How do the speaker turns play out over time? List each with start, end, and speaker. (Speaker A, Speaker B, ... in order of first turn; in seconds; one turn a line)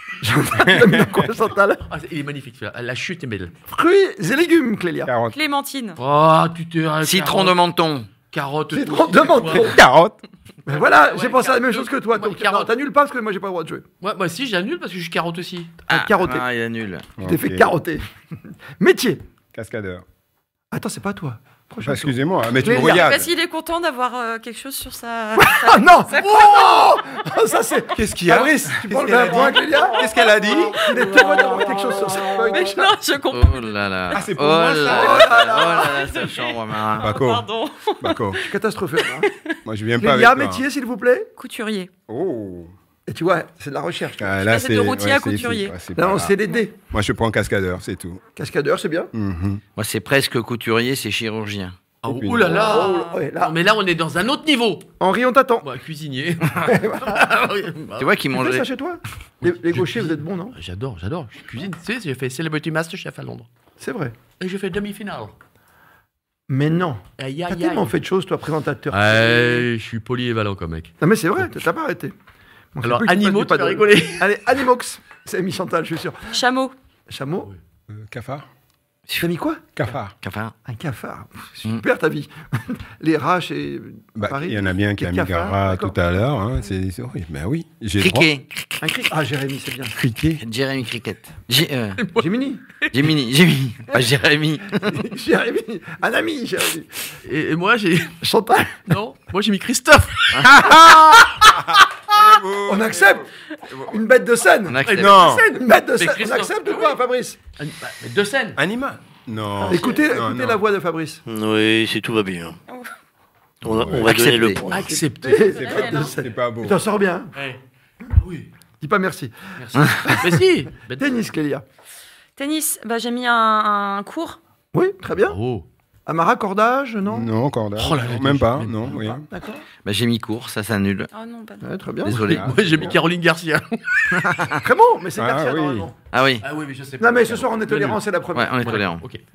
Speaker A: 0.2-1.8
Speaker B: 0.7-1.2
Speaker C: 1.9-3.5
Speaker A: 3.7-5.1
Speaker B: 5.0-5.4
Speaker D: 5.3-6.0
Speaker C: 6.0-7.6
Speaker E: 7.0-8.1
Speaker C: 8.3-9.8
Speaker A: 8.7-9.8
Speaker B: 9.5-10.2
Speaker A: 10.7-13.8
Speaker C: 10.7-12.7
Speaker C: 14.0-15.8
Speaker A: 15.9-16.4
Speaker E: 15.9-17.1
Speaker B: 17.2-17.7
Speaker A: 17.2-18.0
Speaker A: 18.8-19.2
Speaker B: 19.5-20.0
Speaker A: 20.7-23.1
Speaker B: 21.8-23.3
Speaker D: 22.7-26.8
Speaker A: 25.4-30.1
Speaker B: 27.9-30.9
Speaker D: 30.1-34.2
Speaker A: 30.7-33.0
Speaker E: 33.3-37.1
Speaker B: 34.1-35.4
Speaker A: 34.9-36.0
Speaker D: 35.1-39.6
Speaker B: 37.0-37.5
Speaker B: 38.0-38.4
Speaker A: 38.5-39.3
Speaker B: 39.6-40.6
Speaker A: 40.0-41.3
Speaker D: 41.4-41.9
Speaker B: 42.1-42.7
Speaker A: 43.1-44.5
Speaker B: 44.2-46.4
Speaker D: 44.5-45.8
Speaker A: 45.9-46.7
Speaker B: 46.9-48.2
Speaker A: 48.4-49.1
Speaker B: 49.1-49.6
Speaker E: 49.8-51.8
Speaker C: 52.0-54.9
Speaker B: 52.1-52.6
Speaker A: 52.5-53.5
Speaker D: 52.7-53.1
Speaker A: 55.0-55.6
Speaker C: 55.6-58.1
Speaker A: 56.6-57.3
Speaker E: 58.0-58.6
Speaker A: 58.3-60.5
Speaker C: 59.4-63.5
Speaker A: 63.8-64.2
Speaker C: 64.4-65.3
Speaker A: 66.5-69.7
Speaker C: 67.2-67.9
Speaker C: 68.9-71.5
Speaker A: 71.0-72.1
Speaker A: 72.7-76.4
Speaker C: 72.8-74.3
Speaker D: 76.3-76.7
Speaker A: 77.1-77.5
Speaker B: 77.9-78.5
Speaker A: 79.2-79.7
Speaker B: 79.8-80.1
Speaker E: 80.2-80.5
Speaker A: 80.7-86.0
Speaker B: 84.2-88.3
Speaker E: 88.0-88.8
Speaker A: 88.8-89.9
Speaker B: 89.9-90.4
Speaker E: 90.4-92.0
Speaker C: 92.0-92.3
Speaker A: 92.2-92.6
Speaker E: 92.9-95.0
Speaker A: 94.8-97.1
Speaker C: 97.2-98.2
Speaker A: 98.2-98.9
Speaker C: 98.9-101.5
Speaker B: 100.4-104.0
Speaker A: 102.6-103.3
Speaker A: 103.8-107.4
Speaker E: 104.7-105.1
Speaker C: 104.8-107.0
Speaker B: 104.9-105.4
Speaker C: 107.6-108.6
Speaker B: 108.5-110.6
Speaker A: 109.6-111.2
Speaker F: 111.2-112.6
Speaker F: 113.6-114.8
Speaker B: 113.6-114.2
Speaker E: 113.9-114.6
Speaker A: 114.5-117.3
Speaker C: 114.7-115.7
Speaker B: 115.5-116.8
Speaker D: 115.5-116.1
Speaker C: 117.3-117.6
Speaker C: 118.1-118.5
Speaker A: 118.8-121.6
Speaker C: 119.6-121.2
Speaker D: 122.4-124.4
Speaker A: 124.7-125.4
Speaker C: 125.3-125.7
Speaker A: 126.0-127.3
Speaker B: 127.0-129.2
Speaker C: 127.8-129.2
Speaker A: 129.0-129.6
Speaker E: 129.8-131.1
Speaker D: 131.1-131.7
Speaker A: 131.6-132.3
Speaker E: 132.1-132.5
Speaker C: 132.1-134.5
Speaker B: 132.1-133.0
Speaker A: 134.2-135.9
Speaker B: 135.2-135.9
Speaker E: 136.1-136.4
Speaker C: 136.4-138.0
Speaker A: 137.0-138.6
Speaker E: 138.3-139.0
Speaker C: 138.6-139.2